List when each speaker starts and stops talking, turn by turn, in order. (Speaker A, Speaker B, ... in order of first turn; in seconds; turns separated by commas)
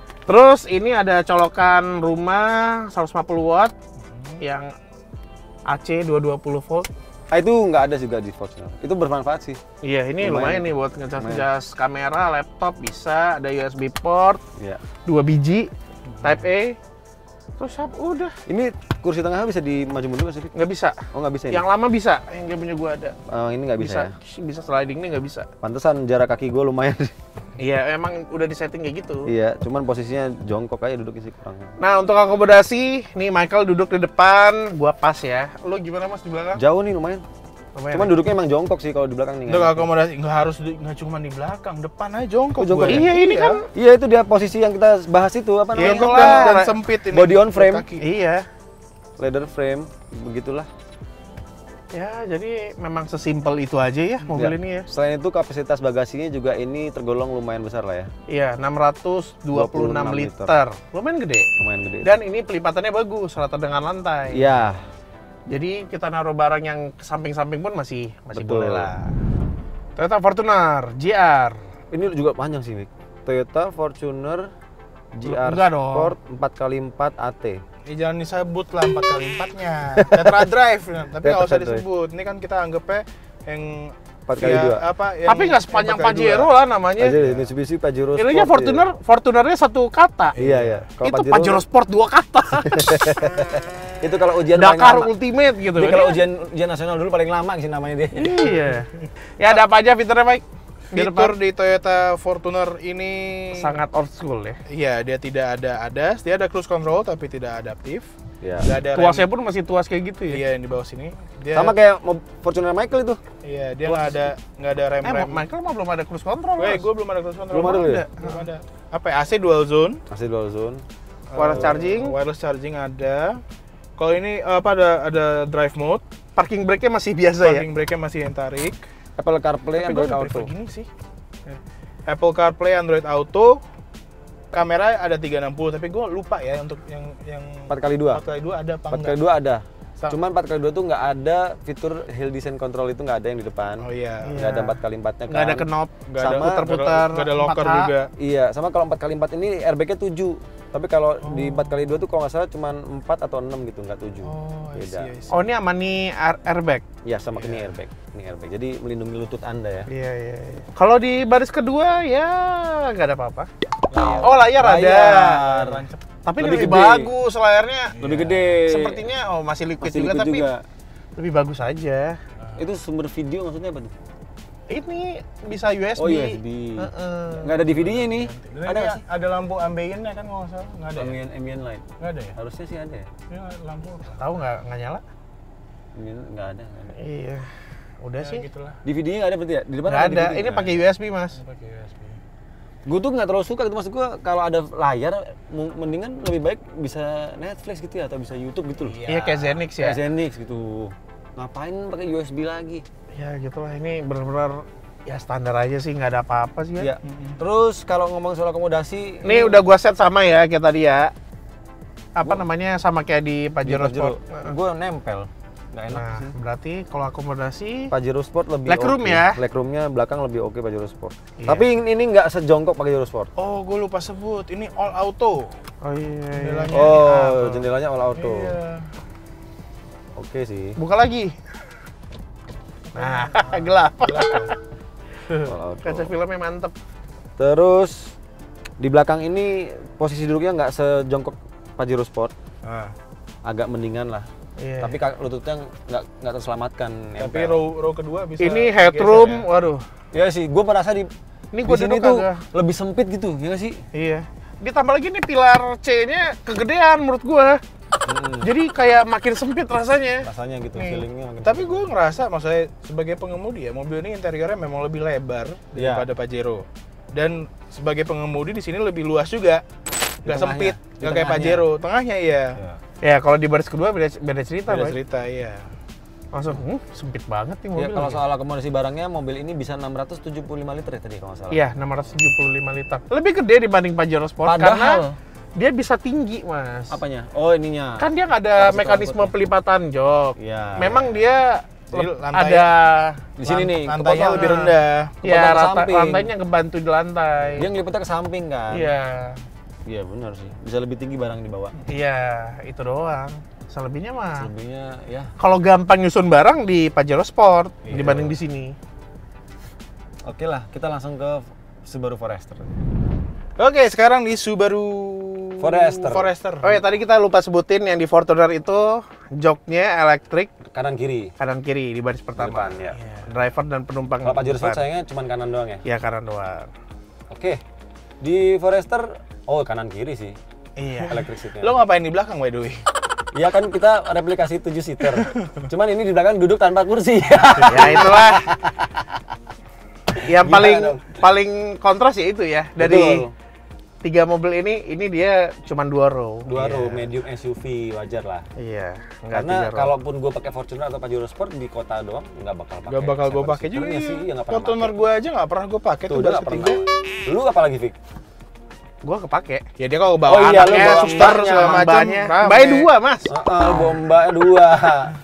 Speaker A: 0.3-3.7, Speaker B: 4.0-4.4, Speaker A: 4.4-4.7, Speaker A: 5.7-6.9, Speaker C: 7.3-9.6, Speaker A: 9.8-14.4, Speaker C: 10.2-11.4, Speaker C: 14.6-14.8, Speaker A: 15.1-15.7, Speaker B: 16.1-16.4, Speaker A: 16.2-16.8, Speaker A: 17.6-18.3, Speaker C: 18.5-20.5, Speaker A: 20.5-21.0, Speaker C: 21.1-21.6, Speaker A: 21.5-23.1, Speaker C: 23.2-24.1, Speaker A: 23.8-25.5, Speaker C: 25.6-27.1, Speaker A: 27.6-29.3, Speaker C: 29.2-31.7, Speaker A: 31.8-36.6, Speaker C: 36.5-37.2, Speaker A: 37.8-38.1, Speaker C: 37.9-39.9, Speaker B: 39.5-43.6, Speaker C: 42.6-43.1, Speaker A: 42.9-43.6, Speaker C: 43.7-47.9, Speaker A: 45.8-46.8, Speaker B: 45.8-48.1, Speaker A: 48.0-48.5, Speaker C: 49.2-50.7, Speaker A: 51.9-54.9, Speaker C: 54.3-58.1, Speaker A: 58.3-61.5, Speaker C: 59.5-60.6, Speaker C: 61.6-62.1, Speaker A: 62.0-64.5, Speaker C: 64.3-64.8, Speaker A: 65.5-69.1, Speaker C: 68.3-68.9, Speaker A: 70.0-71.6, Speaker C: 71.9-74.5, Speaker C: 75.1-77.6, Speaker A: 75.2-76.1, Speaker B: 77.8-86.5, Speaker C: 79.9-80.4, Speaker C: 81.2-81.8, Speaker C: 84.3-84.8, Speaker A: 85.2-87.2, Speaker C: 87.0-88.8, Speaker B: 87.2-87.5, Speaker A: 88.2-90.4, Speaker B: 90.3-90.9, Speaker C: 90.4-91.6, Speaker A: 91.0-93.2, Speaker C: 92.7-95.1, Speaker A: 94.5-96.2, Speaker C: 95.8-98.4, Speaker A: 98.2-101.3, Speaker B: 100.9-103.8, Speaker A: 103.5-104.6, Speaker B: 104.7-108.1, Speaker C: 108.4-108.7, Speaker B: 108.6-109.3, Speaker A: 108.9-110.4, Speaker B: 110.3-111.8, Speaker C: 111.5-113.2, Speaker B: 113.4-115.4, Speaker C: 113.8-114.2, Speaker A: 115.0-116.8, Speaker B: 116.6-120.0, Speaker C: 117.5-118.0, Speaker A: 117.6-118.4, Speaker C: 120.1-120.8, Speaker B: 121.3-123.4, Speaker A: 121.3-122.2, Speaker C: 121.5-121.8, Speaker B: 124.0-126.0, Speaker A: 126.3-127.7, Speaker B: 127.4-128.8, Speaker C: 129.2-130.5, Speaker B: 129.8-130.9, Speaker B: 131.5-133.6, Speaker B: 134.5-139.2, Speaker C: 137.7-138.2, Speaker C: 138.9-146.7, Speaker B: 143.8-144.4, Speaker A: 144.2-147.9, Speaker B: 146.1-148.1, Speaker C: 148.2-155.1, Speaker B: 151.2-151.9, Speaker B: 154.2-155.5, Speaker A: 155.3-156.8, Speaker C: 157.0-159.9, Speaker B: 157.4-157.6, Speaker A: 159.9-163.5, Speaker B: 163.9-164.4, Speaker C: 164.0-165.8, Speaker A: 164.2-165.4, Speaker B: 165.4-166.0, Speaker A: 166.2-168.0, Speaker C: 166.4-167.1, Speaker B: 167.9-168.6, Speaker C: 168.0-169.1, Speaker A: 168.7-170.5, Speaker C: 169.8-170.6, Speaker A: 171.2-172.2, Speaker C: 172.6-173.9, Speaker A: 174.7-177.5, Speaker C: 176.0-176.9, Speaker C: 177.4-179.0, Speaker B: 177.7-181.2, Speaker C: 180.9-183.1, Speaker B: 182.0-182.3, Speaker B: 183.3-184.4, Speaker A: 184.2-185.0, Speaker C: 185.9-187.0, Speaker A: 187.0-188.4, Speaker B: 188.2-188.8, Speaker C: 188.8-190.8, Speaker A: 189.8-191.4, Speaker B: 191.3-192.2, Speaker C: 192.8-199.0, Speaker B: 198.8-199.6, Speaker A: 199.1-200.0, Speaker C: 199.8-202.8, Speaker A: 203.1-206.9, Speaker C: 206.8-209.6, Speaker B: 207.0-207.4, Speaker A: 209.2-211.1, Speaker A: 212.2-214.5, Speaker C: 213.6-216.3, Speaker A: 215.9-217.9, Speaker C: 217.9-223.3, Speaker A: 218.7-219.4, Speaker A: 221.4-221.7, Speaker B: 223.3-225.5, Speaker A: 225.8-226.8, Speaker B: 226.3-228.9, Speaker C: 226.7-228.5, Speaker C: 230.2-230.8, Speaker A: 230.8-231.4, Speaker B: 232.9-234.5, Speaker A: 232.9-234.5, Speaker A: 235.3-236.7, Speaker C: 235.4-236.1, Speaker C: 237.4-238.2, Speaker C: 238.8-242.3, Speaker B: 242.6-242.9, Speaker C: 243.4-244.3, Speaker A: 244.6-244.9, Speaker C: 244.8-247.6, Speaker B: 247.2-249.5, Speaker A: 248.4-249.8, Speaker C: 250.1-251.1, Speaker A: 251.5-252.4, Speaker C: 251.6-253.8, Speaker A: 253.9-257.6, Speaker C: 258.1-258.5, Speaker A: 258.4-261.0, Speaker C: 260.2-261.9, Speaker B: 261.4-269.6, Speaker C: 265.7-266.0, Speaker C: 270.2-271.7, Speaker B: 270.2-272.6, Speaker A: 273.0-275.0, Speaker B: 274.7-275.7, Speaker A: 276.3-278.2, Speaker C: 277.7-281.7, Speaker A: 281.5-285.0, Speaker C: 284.4-285.2, Speaker A: 285.5-286.9, Speaker C: 286.9-289.3, Speaker A: 288.0-293.2, Speaker C: 290.4-291.2, Speaker B: 291.9-292.7, Speaker C: 293.4-294.6, Speaker B: 293.4-295.1, Speaker A: 294.2-297.7, Speaker C: 295.2-296.3, Speaker C: 297.4-298.9, Speaker A: 298.7-299.4, Speaker C: 299.9-301.8, Speaker A: 301.9-304.5, Speaker C: 304.4-305.3, Speaker A: 305.4-308.8, Speaker C: 307.9-308.3, Speaker C: 310.2-312.7, Speaker B: 313.6-316.8, Speaker C: 315.6-316.3, Speaker A: 316.6-320.5, Speaker C: 320.7-321.3, Speaker A: 321.4-324.9, Speaker C: 322.4-322.9, Speaker B: 323.0-323.3, Speaker C: 324.2-325.8, Speaker A: 325.8-326.7, Speaker C: 327.3-327.6, Speaker C: 328.2-330.4, Speaker A: 330.8-331.2, Speaker C: 331.0-331.8, Speaker B: 331.6-332.8, Speaker C: 333.3-339.2, Speaker A: 337.6-338.4, Speaker C: 340.1-341.2, Speaker A: 340.2-343.2, Speaker C: 342.8-343.3, Speaker A: 344.0-347.0, Speaker C: 346.4-348.5, Speaker A: 348.6-349.9, Speaker C: 349.3-355.0, Speaker B: 352.9-356.8, Speaker C: 356.1-358.0, Speaker A: 359.0-359.6, Speaker B: 359.8-362.9, Speaker C: 360.2-361.9, Speaker A: 360.3-363.3, Speaker C: 363.2-365.1